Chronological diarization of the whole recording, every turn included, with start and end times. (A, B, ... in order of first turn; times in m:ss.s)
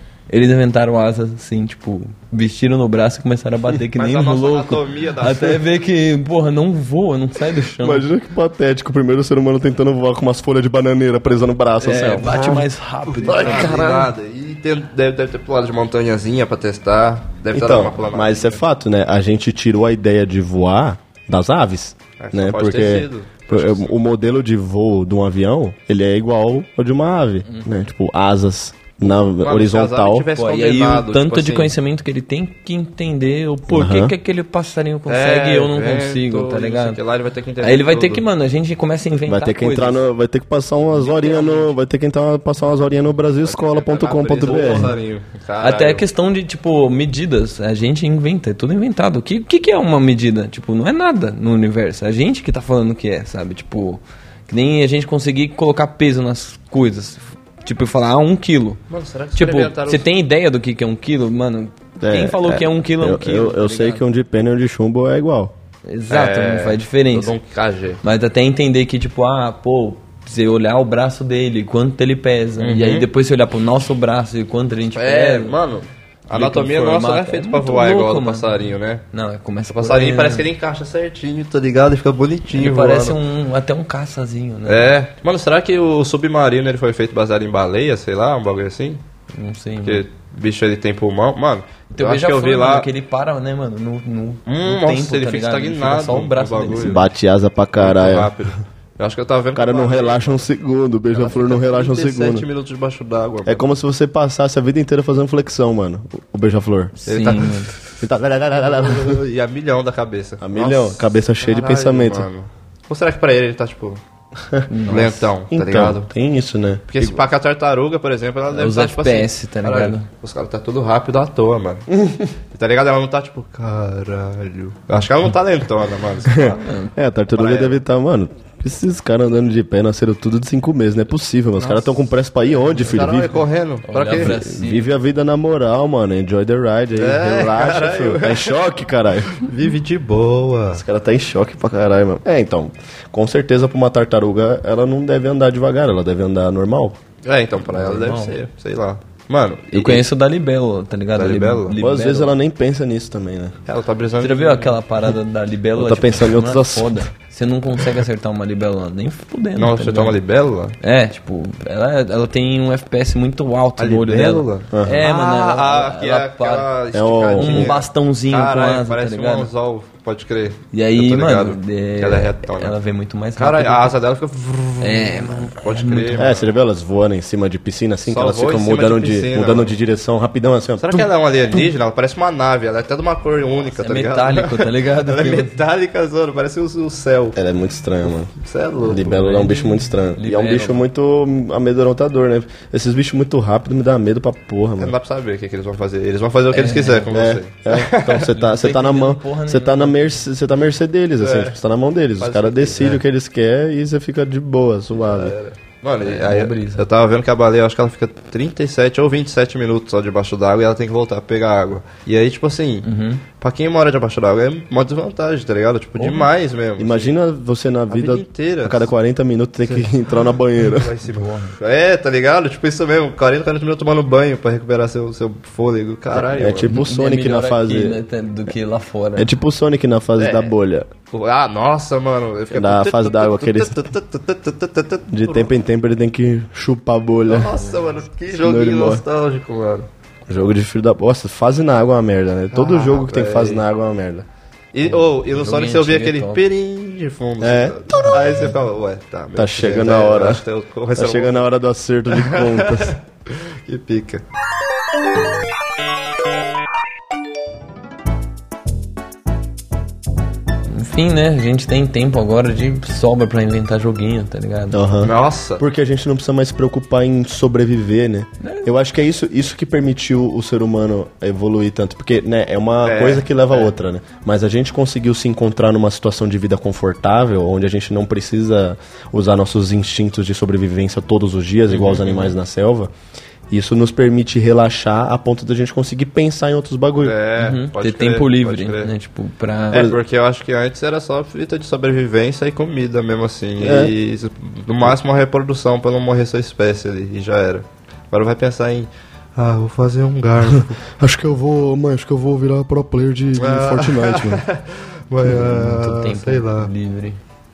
0:00.3-0:08.0 A
0:03.9-0:05.6 B
0:07.8-0:12.7 C
0:11.8-0:14.1 A
0:12.0-0:12.6 B
0:13.1-0:18.6 B
0:13.2-0:13.8 C
0:17.5-0:30.3 C
0:22.2-0:23.9 B
0:27.4-0:27.8 A
0:29.4-0:31.7 B
0:30.3-0:37.0 A
0:33.7-0:34.1 C
0:35.1-0:38.2 B
0:37.6-0:40.0 A
0:39.2-0:44.9 C
0:40.9-0:41.7 B
0:43.4-0:46.0 B
0:44.5-0:44.9 A
0:45.6-0:58.8 A
0:58.9-1:00.1 B
0:59.4-1:04.0 A
1:02.0-1:05.5 C
1:05.9-1:07.3 A
1:06.1-1:08.0 B
1:08.0-1:15.6 A
1:12.6-1:13.1 B
1:14.9-1:19.0 B
1:16.3-1:20.4 A
1:19.7-1:23.2 B
1:22.5-1:24.9 A
1:24.7-1:29.0 B
1:29.3-1:30.0 A
1:29.8-1:32.9 B
1:31.9-1:37.0 A
1:34.4-1:37.0 B
1:36.8-1:38.3 C
1:37.8-1:40.4 B
1:39.5-1:42.5 C
1:41.1-1:43.7 B
1:43.4-1:46.9 C
1:47.0-1:47.8 A
1:47.1-1:47.7 B
1:48.0-1:49.2 C
1:48.6-1:54.0 B
1:50.4-1:52.3 C
1:54.4-1:54.7 C
1:54.7-1:55.3 A
1:54.9-1:56.1 B
1:55.5-1:57.2 C
1:56.9-2:01.9 B
1:58.5-2:00.1 A
2:02.5-2:06.6 B
2:06.3-2:13.4 C
2:06.6-2:06.9 A
2:07.3-2:07.8 B
2:12.7-2:14.4 B
2:13.8-2:14.9 A
2:14.1-2:19.4 C
2:17.0-2:18.6 B
2:19.3-2:20.8 B
2:20.7-2:27.0 C
2:27.2-2:30.1 B
2:27.7-2:28.4 A
2:29.7-2:32.3 A
2:31.1-2:31.8 B
2:31.7-2:33.6 C
2:33.7-2:34.8 B
2:34.2-2:40.2 A
2:35.8-2:37.1 C
2:39.6-2:40.8 B
2:40.8-2:46.7 A
2:43.8-2:52.8 B
2:44.7-2:45.0 C
2:46.9-2:47.7 C
2:47.3-2:49.5 A
2:50.7-2:53.9 A
2:53.4-2:56.5 B
2:54.8-2:56.2 A
2:56.2-3:01.1 C
2:58.0-2:59.7 B
3:00.8-3:07.4 B
3:03.7-3:05.6 A
3:07.3-3:08.3 C
3:08.3-3:09.2 B
3:08.8-3:14.9 C
3:08.9-3:10.8 A
3:14.8-3:18.3 B
3:16.5-3:17.1 A
3:17.1-3:25.3 C
3:18.3-3:20.2 A
3:21.2-3:21.6 B
3:22.2-3:23.0 B
3:24.9-3:32.9 B
3:26.0-3:26.8 A
3:32.8-3:33.2 A
3:33.4-3:37.1 B
3:36.0-3:36.3 A
3:36.8-3:40.9 C
3:37.9-3:38.9 B
3:39.6-3:39.9 B
3:40.6-3:46.8 B
3:41.2-3:41.5 A
3:46.1-3:48.0 C
3:46.7-3:49.3 A
3:49.2-3:50.9 C
3:50.2-3:50.5 B
3:51.1-3:55.5 B
3:52.5-3:53.8 C
3:55.1-3:57.6 C
3:57.2-3:59.9 B
3:58.3-3:59.0 C
4:00.3-4:04.2 C
4:02.5-4:03.6 B
4:04.7-4:11.4 B
4:04.8-4:06.4 A
4:07.4-4:08.4 C
4:09.4-4:10.4 C
4:11.0-4:13.0 C
4:12.1-4:14.2 B
4:20.7-4:24.8 A
4:24.7-4:42.9 C
4:25.0-4:25.6 B
4:28.4-4:28.7 A
4:32.8-4:33.7 B
4:41.8-4:42.3 A
4:43.5-4:47.2 C
4:47.0-4:48.9 B
4:47.4-4:49.9 A
4:49.7-5:00.8 B
4:49.7-4:50.0 C
4:53.6-4:53.9 C
5:00.5-5:04.4 C
5:03.4-5:06.7 B
5:05.2-5:07.2 A